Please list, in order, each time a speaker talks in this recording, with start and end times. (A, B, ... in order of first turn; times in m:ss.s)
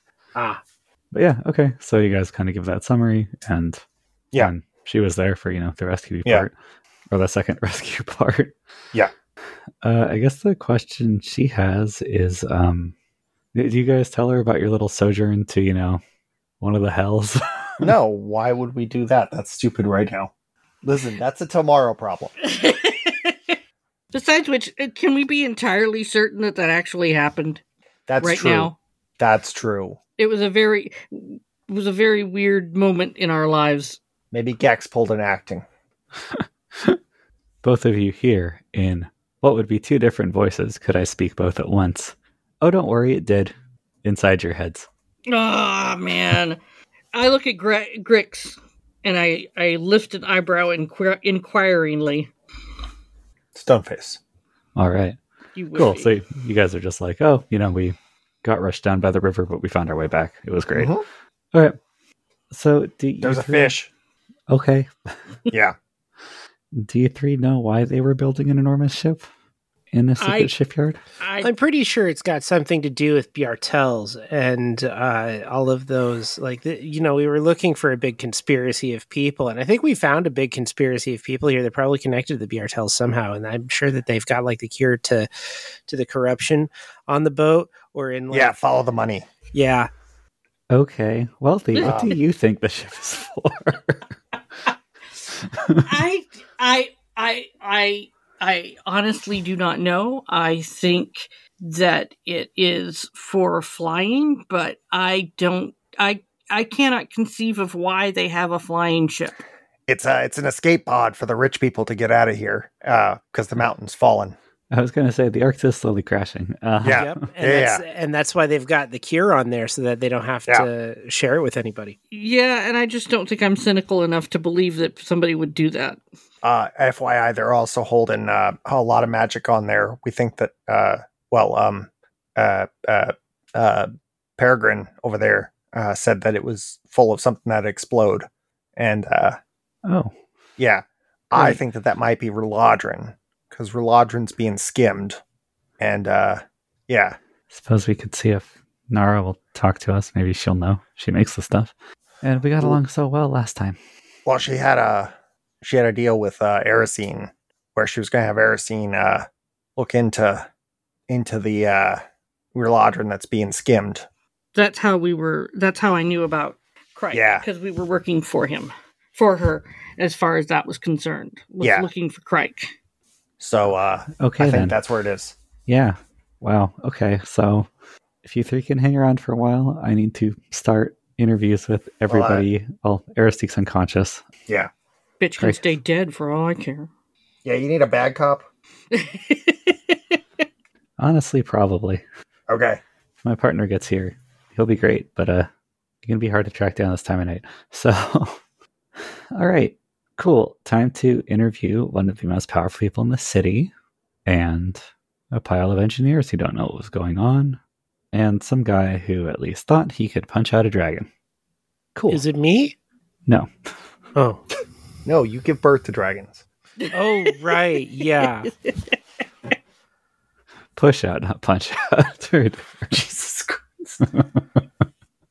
0:00.3-0:00.6 A
0:01.1-0:03.8 B
0:04.4-0:06.5 B
0:07.1-0:08.5 B
0:09.8-0:12.9 B
0:13.5-0:16.0 B
0:16.6-0:17.9 B
0:17.8-0:20.3 A
0:20.8-0:22.3 A
0:22.4-0:23.5 C
0:24.1-0:27.6 C
0:28.1-0:30.0 A
0:28.2-0:28.7 C
0:30.2-0:34.0 C
0:34.3-0:35.6 A
0:36.3-0:37.0 B
0:37.6-0:44.9 B
0:45.3-0:46.6 C
0:47.1-0:52.3 C
0:53.5-0:54.2 A
0:54.8-0:55.2 B
0:55.6-0:56.1 C
0:55.7-1:00.9 B
1:00.7-1:01.0 A
1:02.5-1:03.7 B
1:03.2-1:03.9 A
1:04.5-1:05.2 B
1:05.5-1:05.8 A
1:06.7-1:09.2 B
1:09.9-1:11.0 B
1:10.2-1:10.5 C
1:11.2-1:11.5 C
1:11.4-1:25.3 D
1:25.8-1:28.5 D
1:28.3-1:29.3 A
1:29.5-1:29.9 D
1:30.7-1:34.0 B
1:31.8-1:32.0 C
1:31.8-1:32.1 A
1:35.6-1:35.8 B
1:35.8-1:49.4 C
1:49.9-1:54.4 A
1:54.7-1:57.2 B
1:56.8-1:57.8 A
1:56.9-2:02.0 D
2:02.1-2:06.0 C
2:06.4-2:19.4 A
2:19.8-2:20.1 B
2:20.6-2:25.2 A
2:25.8-2:27.2 A
2:27.5-2:33.8 B
2:34.2-2:40.5 A
2:41.1-2:42.0 A
2:42.5-2:44.0 A
2:44.5-2:52.7 C
2:47.1-2:47.4 A
2:51.6-2:51.9 A
2:53.4-2:55.3 A
2:54.2-2:54.8 B
2:55.7-2:57.7 B
2:58.2-3:04.2 B
3:02.1-3:02.4 A
3:05.2-3:06.9 C
3:05.4-3:05.7 B
3:07.4-3:08.4 A
3:08.9-3:10.2 C
3:11.0-3:12.0 B
3:12.5-3:12.8 A
3:13.2-3:15.5 B
3:16.0-3:18.4 B
3:19.3-3:23.7 B
3:24.2-3:27.6 B
3:28.1-3:31.1 B
3:32.0-3:32.2 B
3:32.1-3:32.7 D
3:34.1-3:34.4 D
3:35.0-3:36.4 A
3:36.8-3:37.4 C
3:36.9-3:38.5 D
3:38.2-3:38.7 C
3:40.8-3:43.4 B
3:43.0-3:44.0 A
3:44.0-3:44.4 B